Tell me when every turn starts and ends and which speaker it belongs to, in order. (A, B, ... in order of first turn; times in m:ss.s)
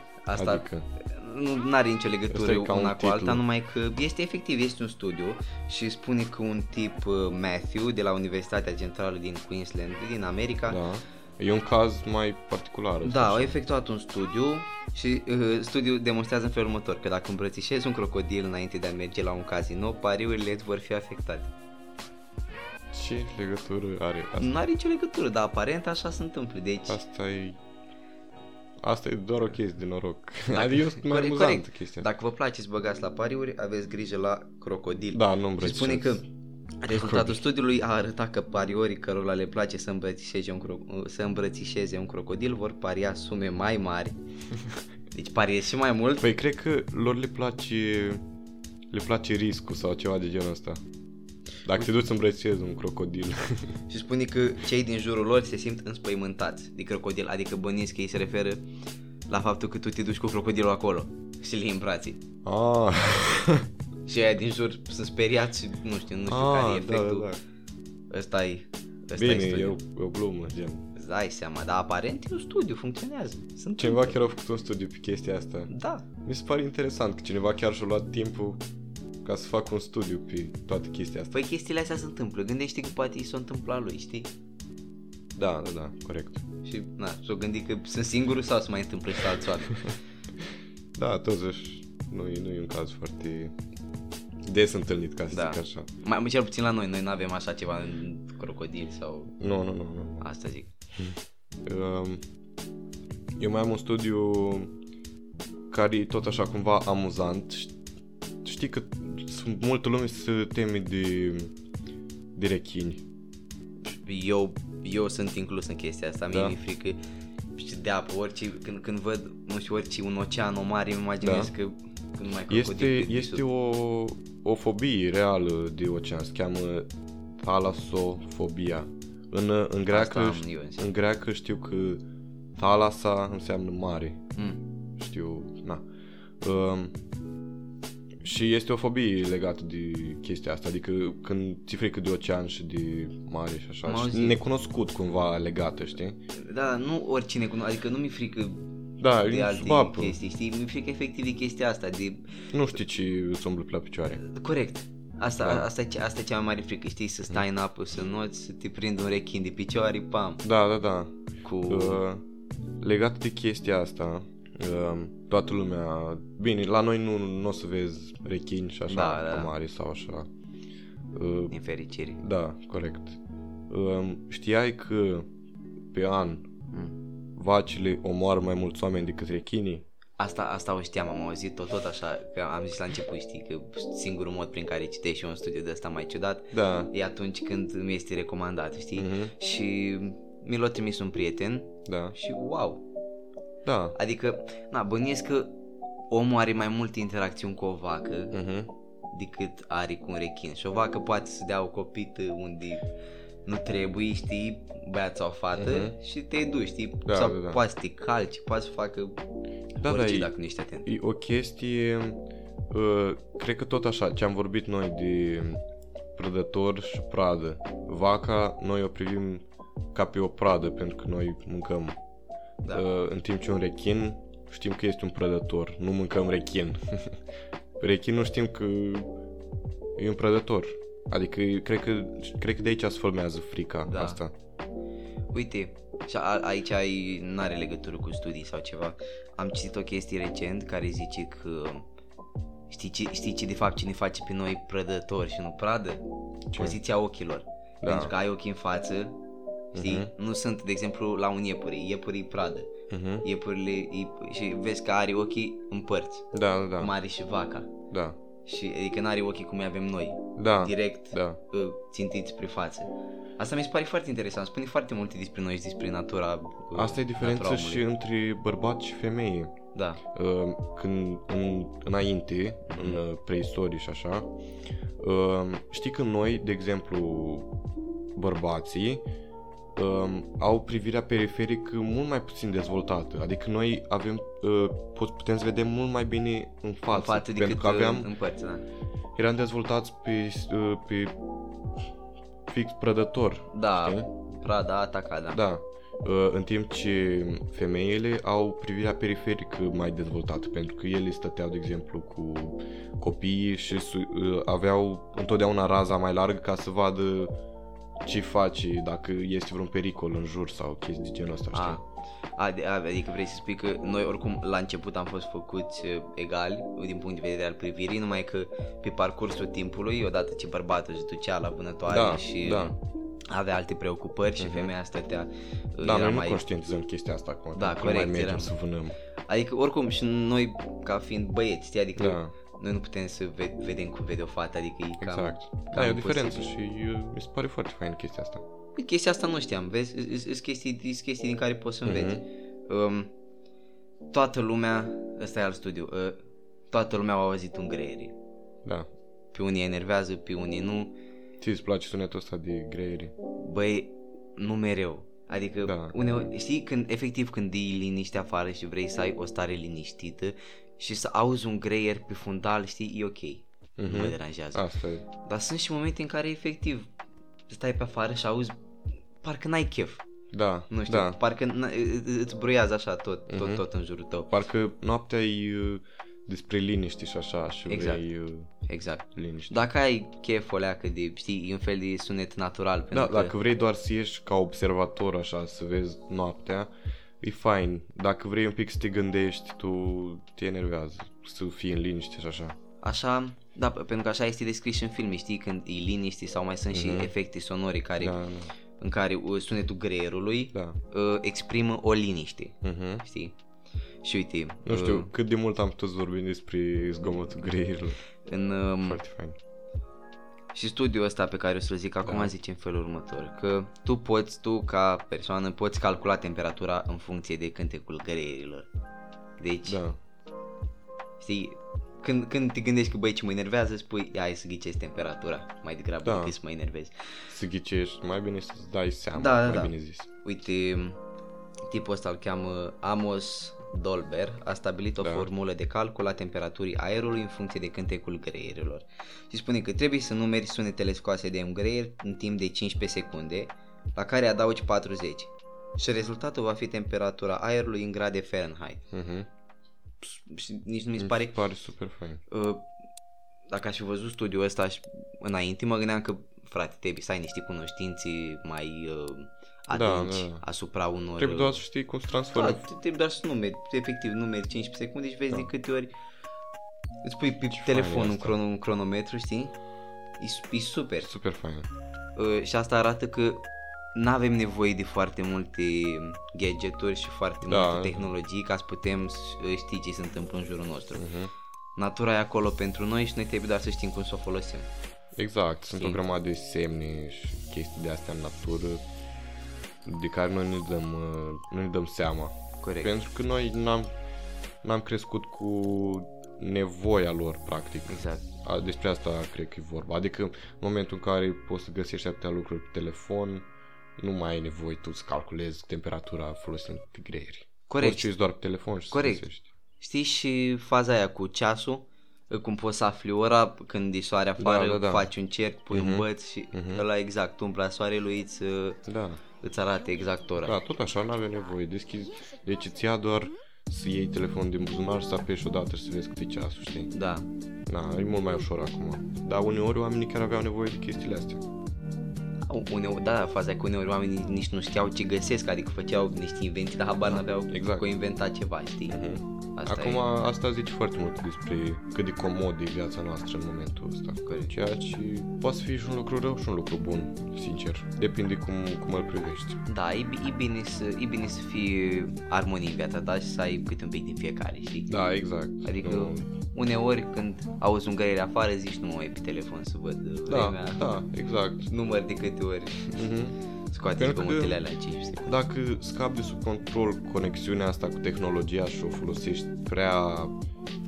0:00.3-0:10.8 A
0:00.4-0:00.9 B
0:02.3-0:03.4 B
0:10.7-0:13.6 B
0:13.0-0:21.5 A
0:22.9-0:24.5 B
0:24.4-0:27.0 A
0:26.9-0:27.6 B
0:28.8-0:32.1 B
0:30.5-0:36.3 A
0:35.1-0:36.2 B
0:36.8-0:44.2 A
0:36.9-0:37.4 B
0:45.1-0:46.3 A
0:46.2-0:48.2 B
0:48.9-0:50.8 B
0:51.6-0:53.7 B
0:53.9-0:58.7 A
0:59.3-1:02.2 A
1:02.4-1:03.7 B
1:04.1-1:07.3 A
1:06.3-1:07.4 B
1:08.1-1:09.8 A
1:09.2-1:10.9 B
1:11.0-1:14.2 A
1:13.8-1:15.7 B
1:15.7-1:16.0 A
1:16.2-1:18.6 B
1:19.2-1:21.3 B
1:21.3-1:24.3 A
1:25.4-1:26.4 B
1:26.6-1:29.9 A
1:31.0-1:33.6 B
1:34.4-1:35.9 B
1:35.3-1:39.4 A
1:39.4-1:40.3 B
1:40.2-1:40.7 A
1:41.0-1:42.2 B
1:43.4-1:44.7 B
1:45.7-1:47.8 B
1:48.4-1:51.5 B
1:52.4-1:53.0 B
1:53.9-1:57.0 A
1:56.3-1:56.6 B
1:57.6-2:03.4 A
2:01.2-2:01.5 B
2:02.5-2:12.0 B
2:09.9-2:10.9 A
2:12.6-2:14.2 B
2:14.4-2:14.6 A
2:15.0-2:15.8 B
2:16.4-2:16.9 B
2:18.2-2:26.2 B
2:23.8-2:24.4 A
2:26.3-2:28.6 A
2:29.0-2:30.2 B
2:29.2-2:32.3 A
2:32.5-2:34.2 B
2:34.2-2:40.4 A
2:35.4-2:35.7 B
2:40.4-2:42.2 B
2:41.4-2:42.0 A
2:42.8-2:50.3 B
2:48.9-2:49.5 A
2:51.1-2:51.6 B
2:51.5-2:52.2 A
2:52.2-2:53.2 B
2:53.7-2:55.3 B
2:55.9-2:56.5 B
2:57.4-2:59.9 B
3:00.2-3:12.8 A
3:06.5-3:06.9 B
3:09.0-3:09.3 B
3:11.9-3:12.2 B
3:13.6-3:14.0 B
3:14.0-3:15.5 A
3:16.1-3:18.4 A
3:18.3-3:18.7 B
3:19.1-3:22.8 A
3:23.5-3:29.2 A
3:25.6-3:26.0 B
3:27.1-3:27.6 B
3:29.8-3:30.3 B
3:29.8-3:30.9 A
3:30.8-3:35.6 B
3:36.2-3:42.0 B
3:42.7-3:47.2 B
3:47.8-3:49.1 B
3:50.0-3:54.3 B
3:53.9-3:54.2 A
3:55.3-4:01.9 A
4:02.7-4:06.0 A
4:06.5-4:06.8 B
4:06.6-4:09.2 A
4:07.8-4:08.1 B
4:09.7-4:10.1 B
4:09.8-4:12.7 A
4:12.9-4:13.2 B
4:13.2-4:16.3 A
4:16.3-4:16.9 B
4:16.8-4:17.8 A
4:17.9-4:18.2 B
4:18.4-4:27.8 A
4:20.4-4:21.4 B
4:26.8-4:29.6 B
4:29.8-4:30.0 A
4:30.1-4:34.3 B
4:32.7-4:33.0 A
4:35.0-4:37.5 B
4:38.2-4:39.0 B
4:39.8-4:48.1 B
4:46.9-4:48.6 A
4:49.2-4:51.2 B
4:52.5-4:54.1 B
4:53.5-4:55.4 A
4:55.3-5:07.3 B
5:08.0-5:11.8 B
5:11.5-5:11.8 A
5:12.4-5:22.8 A
5:21.9-5:22.7 B
5:23.3-5:26.4 A
5:24.4-5:24.7 B
5:25.8-5:29.0 B
5:27.6-5:28.5 A
5:29.3-5:36.5 A
5:32.0-5:32.3 B
5:35.0-5:38.4 B
5:38.8-5:43.1 A
5:41.8-5:42.2 B
5:44.1-5:46.2 A
5:46.7-5:48.2 A
5:49.3-5:51.0 A
5:51.4-5:53.1 B
5:53.4-6:06.9 A
5:55.6-5:56.0 B
6:03.8-6:05.1 B
6:07.5-6:08.6 A
6:09.2-6:10.0 A
6:10.3-6:11.2 B
6:10.7-6:14.3 A
6:13.3-6:13.6 B
6:14.3-6:18.5 B
6:17.7-6:18.0 A
6:18.7-6:23.3 A
6:19.2-6:19.6 B
6:22.9-6:32.6 B
6:32.8-6:38.2 A
6:36.7-6:37.1 B
6:38.0-6:38.5 B
6:38.8-6:43.4 A
6:42.6-6:43.0 B
6:44.0-6:45.1 A
6:44.7-6:48.0 B
6:48.2-6:49.0 A
6:48.8-6:49.4 B
6:50.5-6:58.7 A
6:52.0-6:52.3 B
6:59.4-6:59.8 A
6:59.7-7:00.0 B
7:01.2-7:06.9 A
7:06.0-7:06.3 B
7:07.3-7:10.1 B
7:09.2-7:11.0 A
7:11.7-7:28.9 A
7:15.0-7:15.3 B
7:28.9-7:29.3 B
7:30.0-7:31.4 A
7:31.0-7:32.2 B
7:32.3-7:32.7 A
7:33.5-7:41.6 A
7:39.7-7:40.4 B
7:41.2-7:42.6 B
7:42.3-7:45.9 A
7:47.0-7:49.6 A
7:47.5-7:48.4 B
7:50.2-7:51.1 A
7:51.0-7:51.7 B
7:52.2-7:53.4 A
7:53.9-8:01.1 A
7:57.5-7:58.1 B
8:01.0-8:01.3 B
8:01.8-8:04.7 A
8:05.2-8:08.8 B
8:09.8-8:13.9 B
8:12.6-8:12.9 A
8:14.6-8:23.5 B
8:17.9-8:18.3 A
8:24.0-8:29.5 B
8:27.7-8:28.1 A
8:28.9-8:29.3 A
8:29.8-8:38.8 A
8:34.4-8:35.1 B
8:35.7-8:36.8 B
8:38.9-8:39.2 B
8:39.4-8:40.6 A
8:40.4-8:46.9 B
8:46.9-8:47.3 A
8:47.7-8:51.4 B
8:52.5-8:59.0 A
8:57.1-8:57.9 B
8:58.9-9:09.6 B
8:59.6-9:00.0 A
9:04.2-9:04.5 A
9:09.7-9:14.9 A
9:14.9-9:16.2 B
9:15.6-9:21.0 A
9:20.3-9:21.7 B
9:21.7-9:22.9 A
9:22.9-9:23.4 B
9:23.7-9:25.4 A
9:24.0-9:24.7 B
9:25.3-9:30.3 B